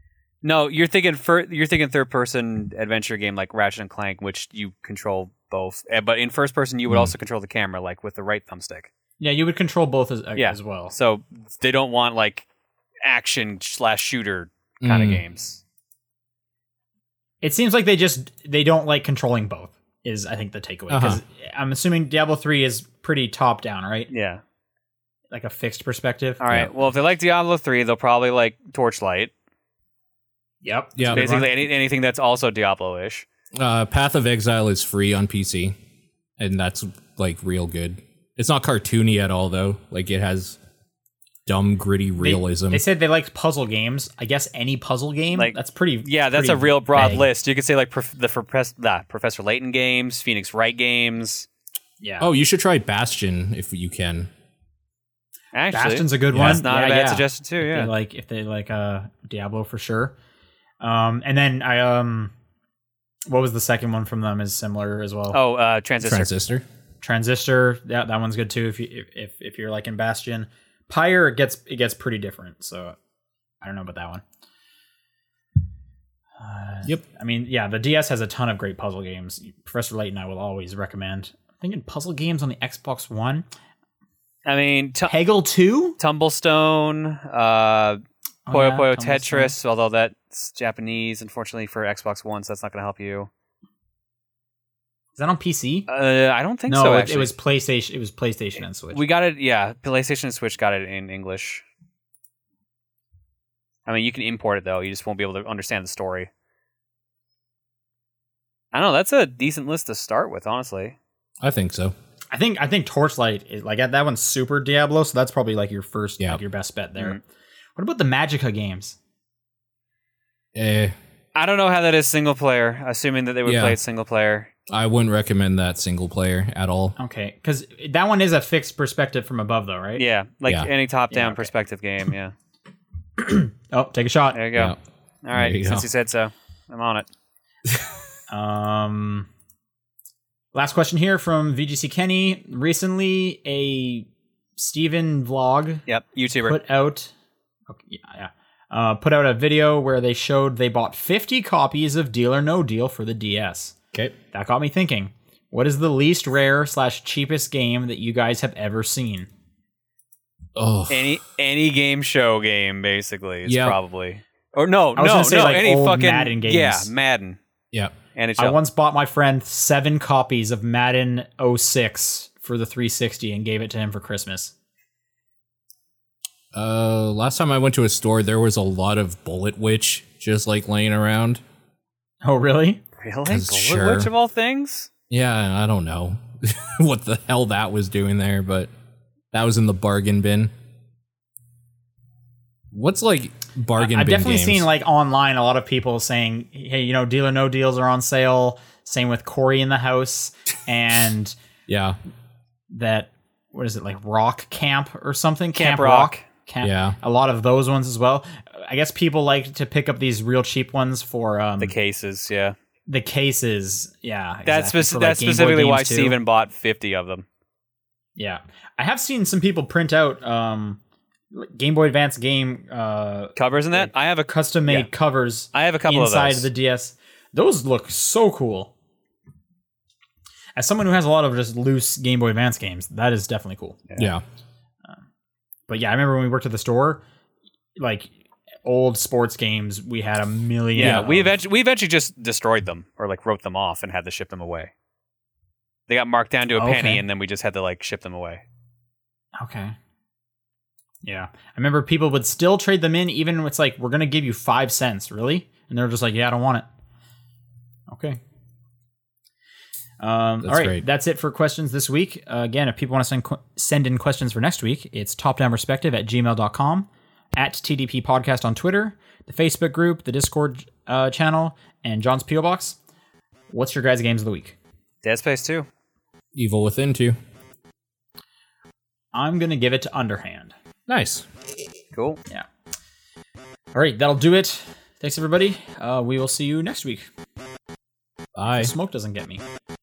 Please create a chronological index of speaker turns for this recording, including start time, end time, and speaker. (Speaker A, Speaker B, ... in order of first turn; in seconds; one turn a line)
Speaker A: 0.4-8.9
Speaker B: 6.9-7.1
Speaker C: 9.2-10.9
Speaker A: 10.4-12.5
Speaker A: 13.1-15.6
Speaker B: 14.8-15.2
Speaker C: 17.4-24.1
Speaker B: 20.9-21.2
Speaker A: 24.1-24.4
Speaker C: 25.3-26.4
Speaker A: 26.4-29.3
Speaker C: 30.6-31.5
Speaker B: 31.0-31.3
Speaker A: 31.1-33.3
Speaker B: 33.5-35.8
Speaker B: 36.4-40.6
Speaker B: 41.5-42.8
Speaker C: 42.2-47.3
Speaker A: 45.3-51.5
Speaker C: 52.0-52.3
Speaker B: 52.2-54.3
Speaker A: 55.5-57.9
Speaker C: 55.7-60.1
Speaker B: 56.3-56.6
Speaker C: 60.8-62.3
Speaker C: 63.3-65.4
Speaker A: 65.3-66.3
Speaker B: 66.0-66.7
Speaker C: 67.0-73.0
Speaker C: 73.6-74.2
Speaker C: 76.4-83.5
Speaker A: 84.5-85.1
Speaker C: 85.1-86.0
Speaker A: 86.0-93.3
Speaker C: 88.5-89.5
Speaker C: 95.2-95.9
Speaker A: 95.9-97.3
Speaker C: 96.7-99.0
Speaker A: 98.9-101.6
Speaker A: 103.9-106.3
Speaker A: 108.7-111.0
Speaker B: 111.4-112.0
Speaker C: 112.3-117.2
Speaker C: 117.8-119.0
Speaker B: 120.5-121.0
Speaker A: 121.3-124.5
Speaker B: 123.5-123.8
Speaker B: 124.7-127.0
Speaker C: 127.0-130.0
Speaker A: 130.0-132.3
Speaker C: 131.1-131.5
Speaker C: 133.2-134.4
Speaker A: 134.3-137.1
Speaker B: 135.3-135.9
Speaker C: 138.3-139.3
Speaker C: 140.5-145.8
Speaker A: 145.9-146.6
Speaker C: 146.4-147.1
Speaker C: 147.7-153.8
Speaker C: 154.3-159.3
Speaker B: 160.6-161.2
Speaker A: 160.9-167.4
Speaker B: 163.5-163.8
Speaker C: 165.0-166.9
Speaker A: 168.2-168.6
Speaker C: 168.4-174.5
Speaker B: 176.5-181.4
Speaker C: 182.2-182.8
Speaker A: 183.0-184.9
Speaker B: 183.3-184.1
Speaker B: 185.1-188.7
Speaker B: 189.3-190.5
Speaker B: 192.7-194.7
Speaker C: 193.8-201.3
Speaker B: 201.7-202.0
Speaker C: 202.7-211.7
Speaker A: 205.6-206.2
Speaker B: 206.6-207.0
Speaker A: 211.6-212.6
Speaker C: 212.9-216.2
Speaker A: 214.5-217.2
Speaker C: 218.2-220.8
Speaker C: 221.3-228.7
Speaker A: 223.4-224.9
Speaker A: 225.5-226.5
Speaker C: 230.6-234.0
Speaker B: 234.0-234.2
Speaker C: 235.7-237.0
Speaker C: 237.8-238.1
Speaker C: 238.7-241.3
Speaker A: 240.8-244.7
Speaker B: 240.8-241.1
Speaker A: 245.9-248.4
Speaker C: 246.6-247.0
Speaker C: 249.4-249.8
Speaker C: 251.0-256.6
Speaker C: 257.9-258.2
Speaker C: 260.0-272.8
Speaker B: 260.4-260.8
Speaker C: 273.5-274.6
Speaker A: 275.0-275.7
Speaker B: 276.3-277.2
Speaker C: 279.1-280.6
Speaker B: 280.9-281.3
Speaker A: 281.9-282.2
Speaker C: 283.7-287.1
Speaker B: 288.4-288.7
Speaker C: 288.5-289.4